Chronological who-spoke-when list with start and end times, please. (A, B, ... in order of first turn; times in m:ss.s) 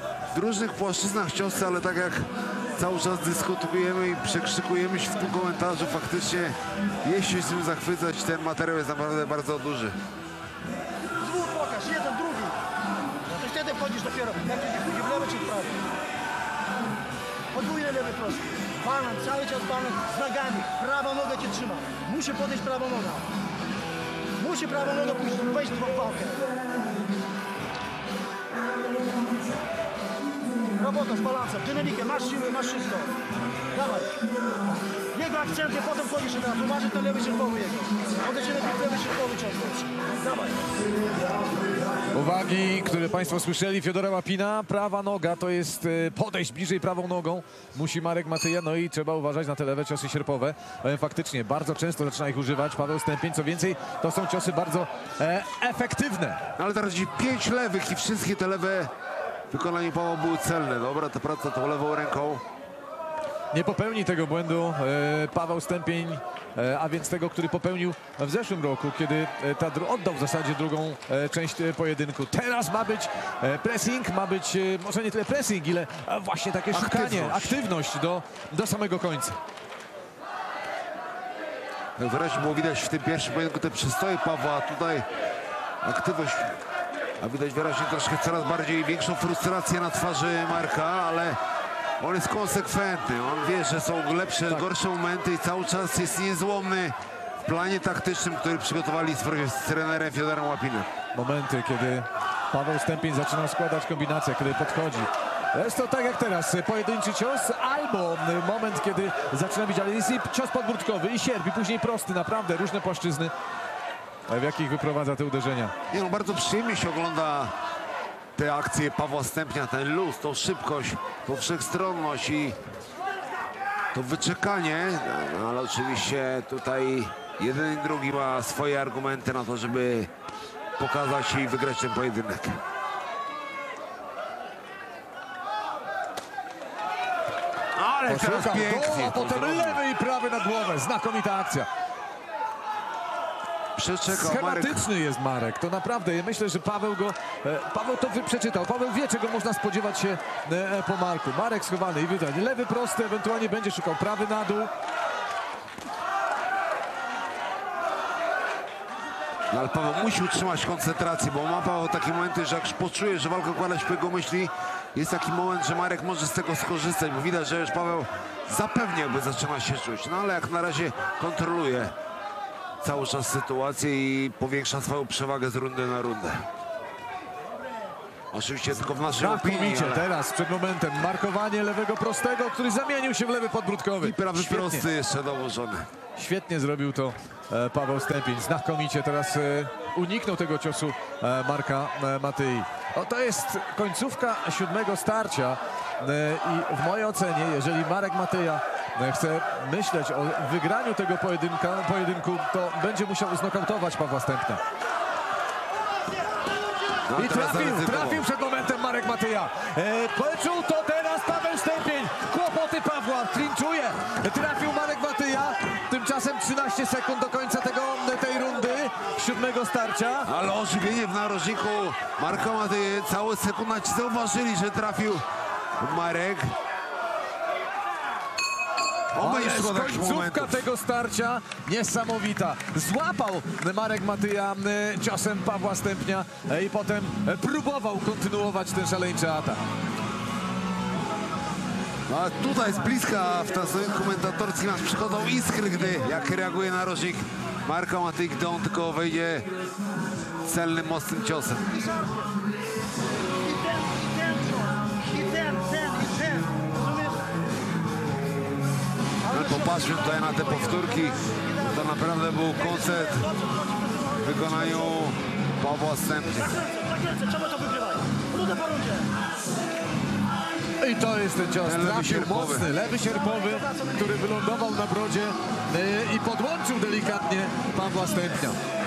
0:00.3-0:10.0 A
0:11.2-0:12.6 B
0:13.3-0:15.8 B
0:17.5-0:23.3 B
0:24.4-0:26.5 B
0:30.8-0:33.2 B
0:33.7-0:34.2 B
0:35.1-0:40.8 B
0:42.1-0:56.4 C
0:56.6-0:58.9 A
0:59.5-1:02.4 A
1:03.5-1:19.4 C
1:16.7-1:17.6 A
1:22.0-1:25.0 A
1:25.8-1:26.6 A
1:27.2-1:31.4 A
1:32.0-1:40.9 A
1:41.1-1:53.3 C
1:54.3-1:55.7 C
1:55.9-1:57.5 A
1:58.4-2:02.6 A
2:03.9-2:10.1 A
2:10.8-2:12.6 A
2:17.7-2:19.8 A
2:18.1-2:21.7 C
2:23.7-2:24.9 A
2:24.1-2:34.7 C
2:39.5-2:51.9 A
2:52.8-2:56.4 A
2:58.3-3:00.0 A
2:59.0-3:04.9 C
3:04.0-3:05.9 A
3:06.2-3:24.6 C
3:27.1-3:28.2 A
3:27.2-3:40.3 C
3:40.2-3:45.2 A
3:45.8-3:46.5 A
3:49.1-3:50.6 A
3:49.2-3:59.6 C
4:02.1-4:09.5 A
4:10.4-4:11.7 A
4:11.7-4:12.3 B
4:13.4-4:17.2 B
4:19.2-4:22.0 B
4:19.3-4:23.3 A
4:22.5-4:25.1 B
4:24.2-4:26.5 A
4:26.4-4:29.1 B
4:30.8-4:38.6 C
4:31.6-4:32.6 A
4:32.7-4:34.2 B